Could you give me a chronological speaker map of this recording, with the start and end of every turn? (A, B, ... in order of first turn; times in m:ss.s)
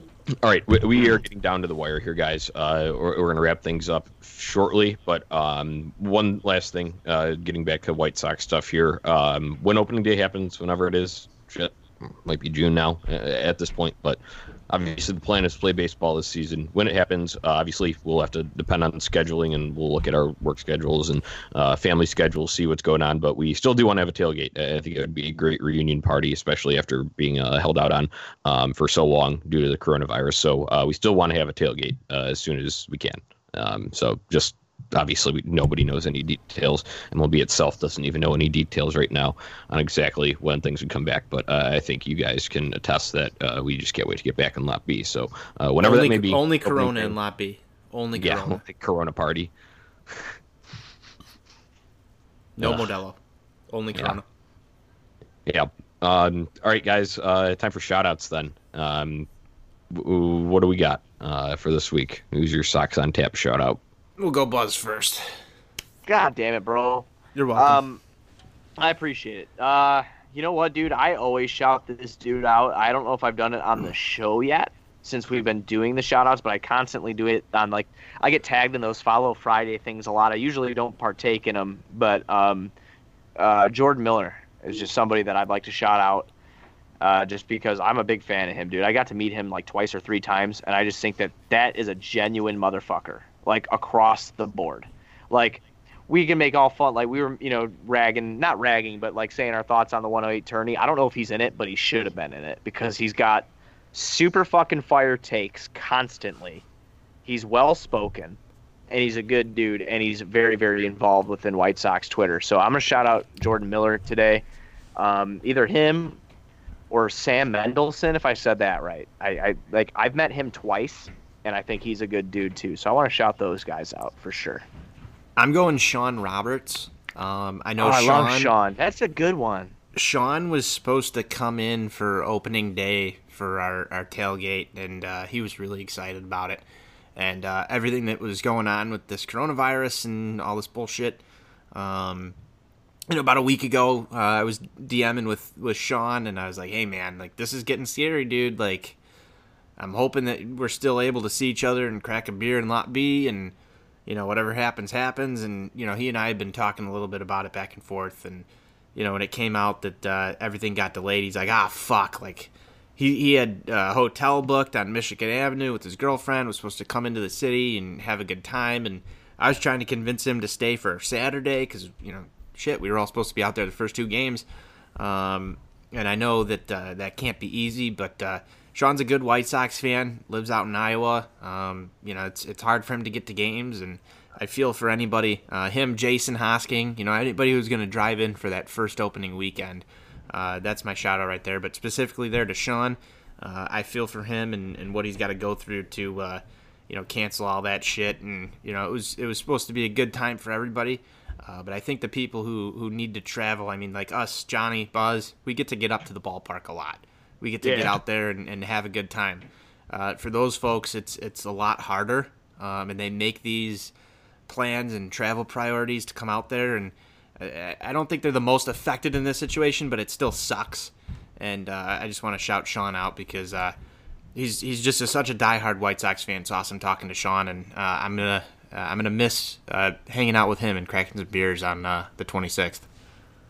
0:00.4-0:47.2 A
0:45.8-0:48.6 B
0:48.1-0:49.5 A
0:50.1-0:50.4 A
0:52.6-0:53.2 B
0:52.6-0:52.9 A
0:53.7-0:54.2 B
0:55.5-0:59.3 A
0:59.9-1:03.8 A
1:04.2-1:05.3 B
1:06.1-1:08.0 C
1:07.4-1:07.8 B
1:08.8-1:22.7 C
1:23.4-1:26.3 C
1:27.0-1:46.6 C
1:47.2-1:48.4 C
1:48.9-1:54.4 C
1:55.0-1:56.2 C
1:56.9-2:04.6 C
2:05.4-2:08.5 B
2:07.8-2:09.7 C
2:10.0-2:16.6 B
2:17.2-2:22.4 B
2:23.1-2:29.0 B
2:29.8-2:33.6 B
2:34.1-2:54.4 B
2:55.0-3:33.9 B
3:27.6-3:28.0 C
3:34.5-3:43.8 B
3:44.4-3:52.9 B